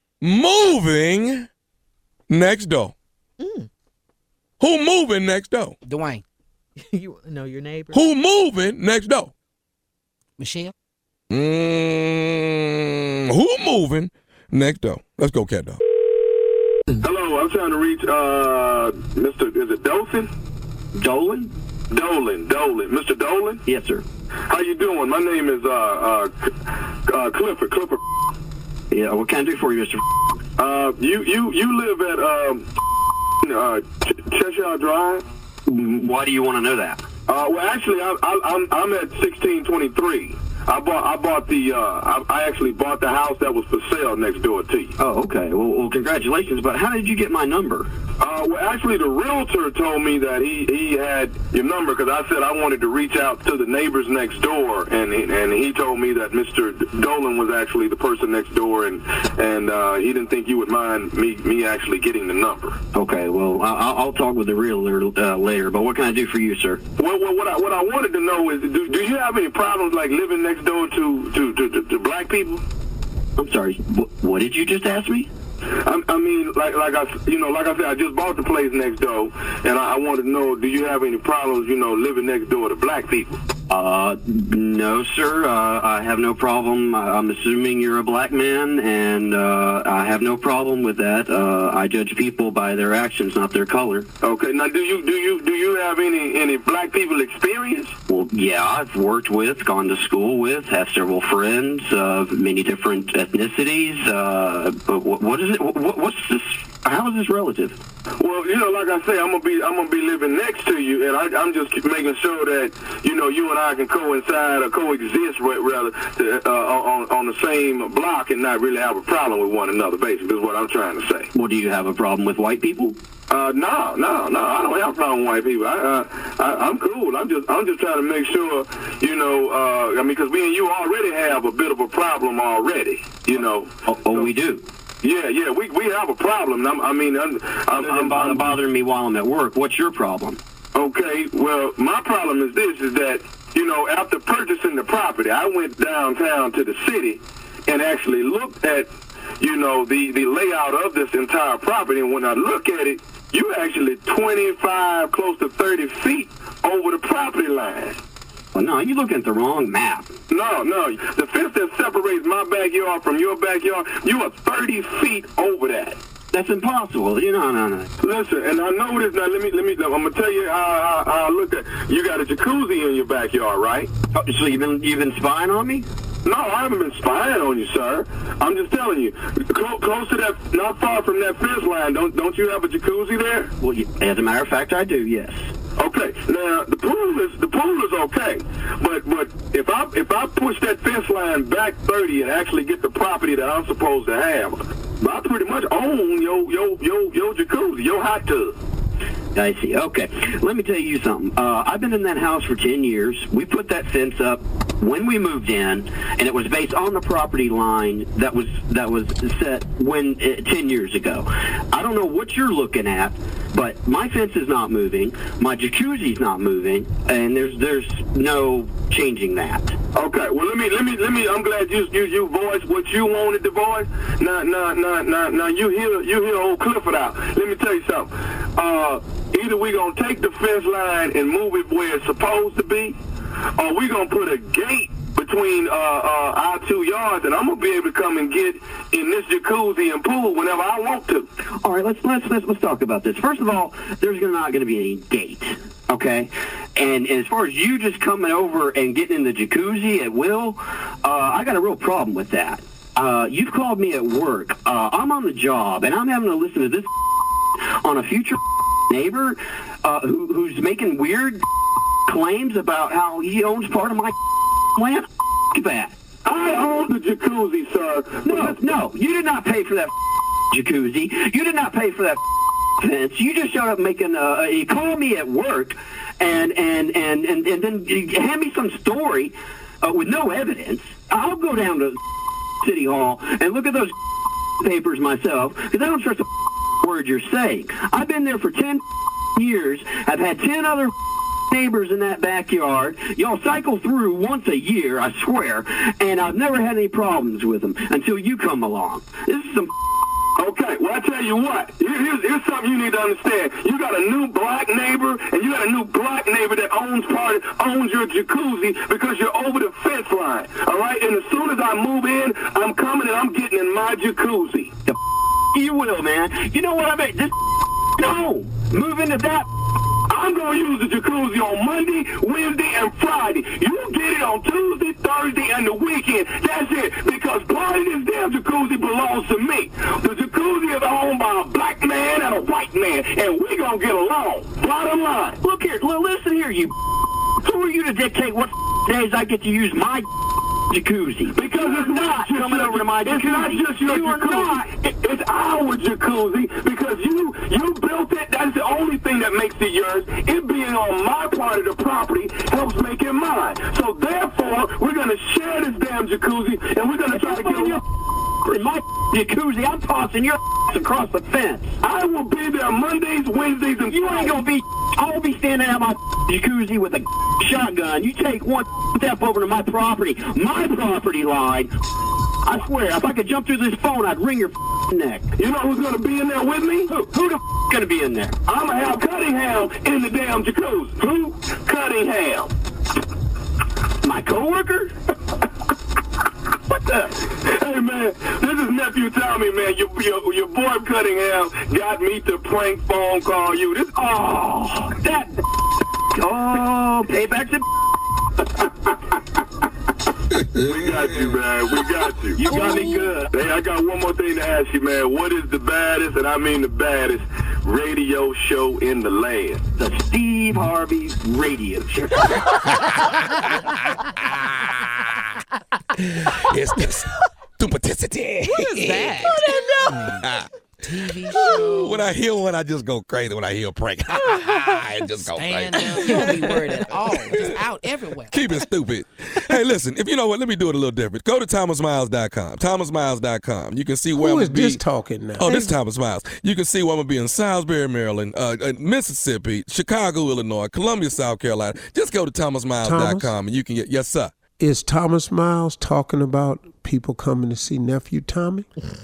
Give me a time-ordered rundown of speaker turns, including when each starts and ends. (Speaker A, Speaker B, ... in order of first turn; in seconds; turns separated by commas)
Speaker A: 0.2-1.5, Speaker A: 2.3-3.0, Speaker B: 3.4-3.7, Speaker A: 4.6-5.8, Speaker C: 5.8-6.2, Speaker B: 6.8-8.0, Speaker A: 7.9-9.3, Speaker C: 10.4-10.7, Speaker A: 11.3-15.8, Speaker D: 16.9-20.3, Speaker E: 20.9-21.5, Speaker D: 21.9-23.6, Speaker E: 23.7-24.0, Speaker D: 24.5-28.0, Speaker E: 28.9-30.0, Speaker D: 30.6-32.7, Speaker D: 33.4-35.2, Speaker E: 35.7-37.0, Speaker D: 37.3-45.0, Speaker E: 45.0-47.9, Speaker D: 48.2-62.8, Speaker E: 62.9-66.8, Speaker D: 67.0-72.6, Speaker E: 73.4-75.3, Speaker D: 75.8-83.3, Speaker E: 83.7-94.1, Speaker D: 94.2-97.9, Speaker E: 98.1-107.8, Speaker D: 108.2-121.3, Speaker E: 121.3-123.0, Speaker D: 123.3-134.3, Speaker E: 133.9-134.7, Speaker D: 135.0-138.5, Speaker E: 137.8-140.4, Speaker D: 140.8-158.0, Speaker E: 158.5-160.1, Speaker D: 160.3-166.0, Speaker E: 166.3-167.9, Speaker D: 168.0-173.9, Speaker E: 174.1-175.9, Speaker D: 176.2-183.5, Speaker E: 183.6-185.5, Speaker D: 185.8-198.6, Speaker E: 199.3-219.8, Speaker D: 219.9-233.0, Speaker D: 233.6-241.3, Speaker E: 241.6-256.9, Speaker E: 257.6-261.4, Speaker E: 262.1-264.1, Speaker E: 264.7-265.9, Speaker D: 266.2-268.7, Speaker E: 268.2-269.9, Speaker E: 270.5-272.2, Speaker E: 272.8-282.0, Speaker E: 282.6-283.9, Speaker E: 284.6-286.3, Speaker E: 286.8-288.8, Speaker E: 289.4-290.9, Speaker E: 291.5-299.7, Speaker D: 300.4-314.7, Speaker E: 315.5-317.3, Speaker E: 318.0-319.5, Speaker D: 320.1-335.4, Speaker E: 335.4-336.7, Speaker E: 337.4-340.1, Speaker E: 340.7-344.6, Speaker D: 341.3-357.8, Speaker E: 357.1-357.8, Speaker E: 358.4-361.7, Speaker D: 361.8-364.4, Speaker E: 363.9-371.7, Speaker E: 372.4-375.3, Speaker D: 375.4-376.9, Speaker E: 376.9-378.4, Speaker D: 378.5-382.5, Speaker E: 384.0-384.9, Speaker E: 386.7-387.2, Speaker D: 387.4-394.3, Speaker E: 394.1-395.4, Speaker E: 396.1-397.6, Speaker D: 400.6-409.6, Speaker E: 402.4-403.3, Speaker E: 409.8-412.5, Speaker A: 416.0-419.4, Speaker C: 418.5-420.2, Speaker B: 419.3-420.2, Speaker A: 420.0-420.5, Speaker C: 420.8-422.1, Speaker A: 421.1-427.6, Speaker B: 424.2-424.8, Speaker C: 425.3-428.6, Speaker A: 428.3-434.8, Speaker F: 434.1-435.6, Speaker A: 435.4-444.4, Speaker B: 435.5-435.7, Speaker F: 442.8-443.3, Speaker F: 444.6-448.7